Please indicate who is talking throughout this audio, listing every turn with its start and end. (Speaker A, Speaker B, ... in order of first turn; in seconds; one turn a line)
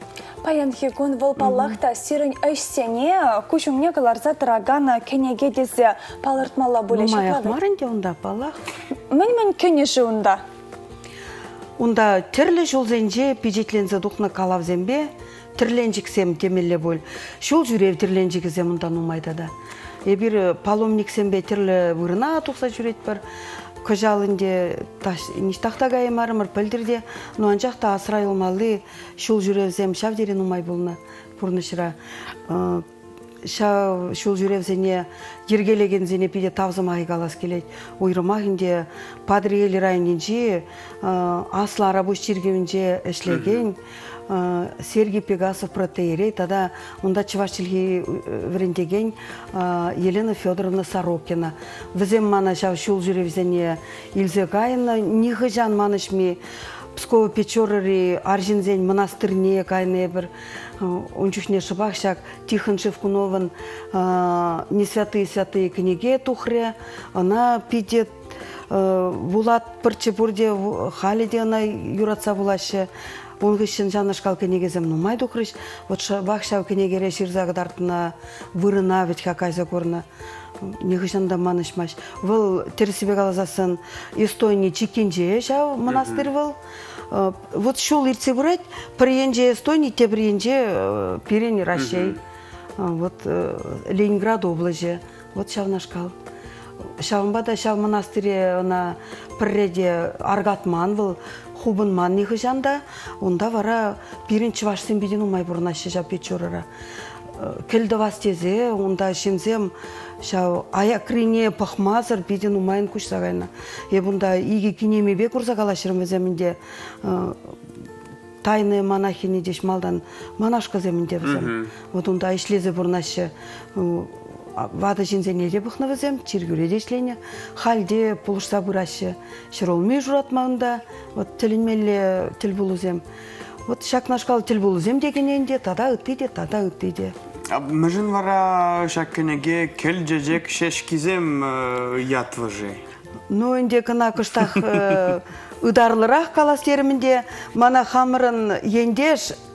Speaker A: 0.4-7.6
Speaker B: 1.4-1.7
Speaker B: 6.9-8.6
Speaker A: 9.1-10.4
Speaker B: 11.8-19.5
Speaker B: 20.0-23.2
Speaker B: 23.8-32.0
Speaker B: 32.5-32.8
Speaker B: 33.4-56.4
Speaker C: 43.3-43.6
Speaker B: 56.9-68.1
Speaker B: 68.7-72.9
Speaker B: 73.4-80.0
Speaker B: 80.6-86.6
Speaker C: 85.9-86.2
Speaker B: 87.1-92.2
Speaker C: 91.7-92.2
Speaker B: 92.8-96.1
Speaker B: 97.0-106.7
Speaker B: 107.4-117.4
Speaker B: 118.4-133.0
Speaker C: 121.2-121.7
Speaker B: 133.7-137.1
Speaker C: 137.5-142.8
Speaker B: 143.3-149.3